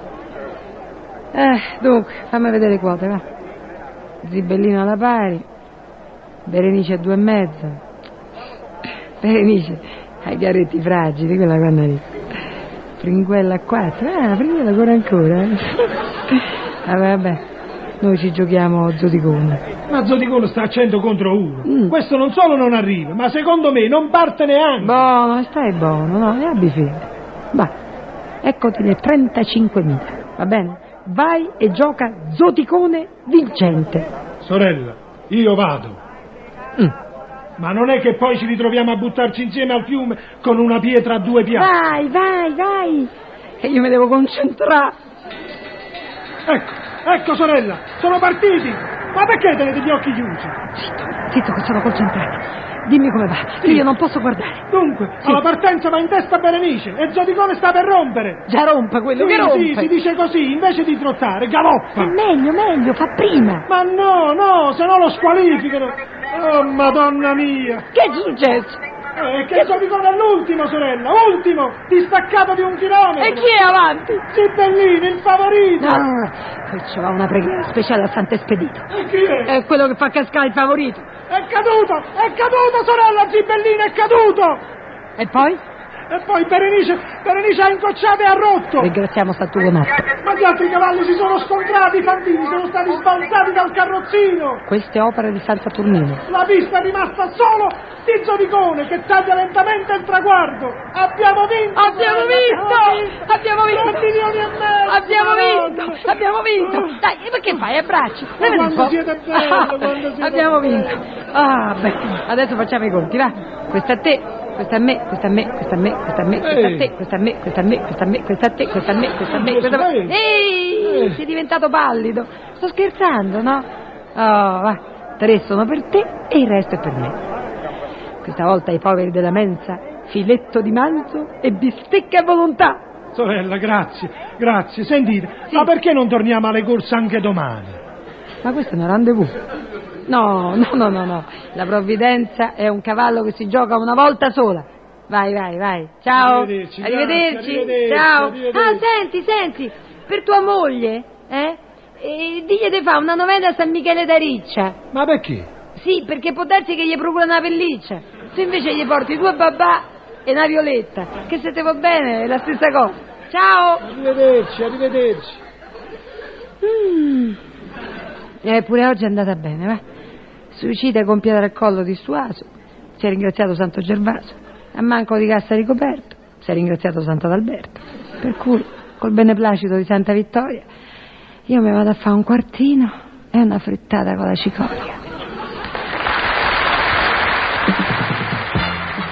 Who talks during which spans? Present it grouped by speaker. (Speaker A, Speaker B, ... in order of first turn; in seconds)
Speaker A: 1.3-3.2, 4.2-5.4, 6.4-7.8, 9.2-12.1, 13.0-17.4, 18.0-19.6, 21.6-21.9, 24.8-27.7, 28.4-34.1, 41.5-44.9, 50.7-54.6, 58.5-59.9, 62.0-63.7, 67.9-68.8, 73.2-74.2, 75.8-78.8, 79.4-81.1, 85.2-85.6, 88.8-90.0, 94.7-96.2, 101.7-104.1, 104.9-127.2, 128.2-132.8, 138.4-139.3, 140.1-154.8, 155.7-163.8, 166.6-167.4, 168.4-169.8, 170.5-180.7, 181.5-185.0
Speaker B: 19.9-25.1, 34.4-36.0, 37.6-41.7, 46.5-50.6, 53.6-53.9, 54.7-58.4, 59.1-62.1, 63.7-67.8, 69.2-73.5, 74.3-76.0, 78.9-79.5, 81.3-84.6, 86.1-88.9, 90.2-94.6, 96.3-107.0, 108.4-111.0, 116.4-116.9, 119.3-120.2, 120.8-121.2, 133.1-137.8, 146.1-148.8, 154.9-155.5, 163.8-165.4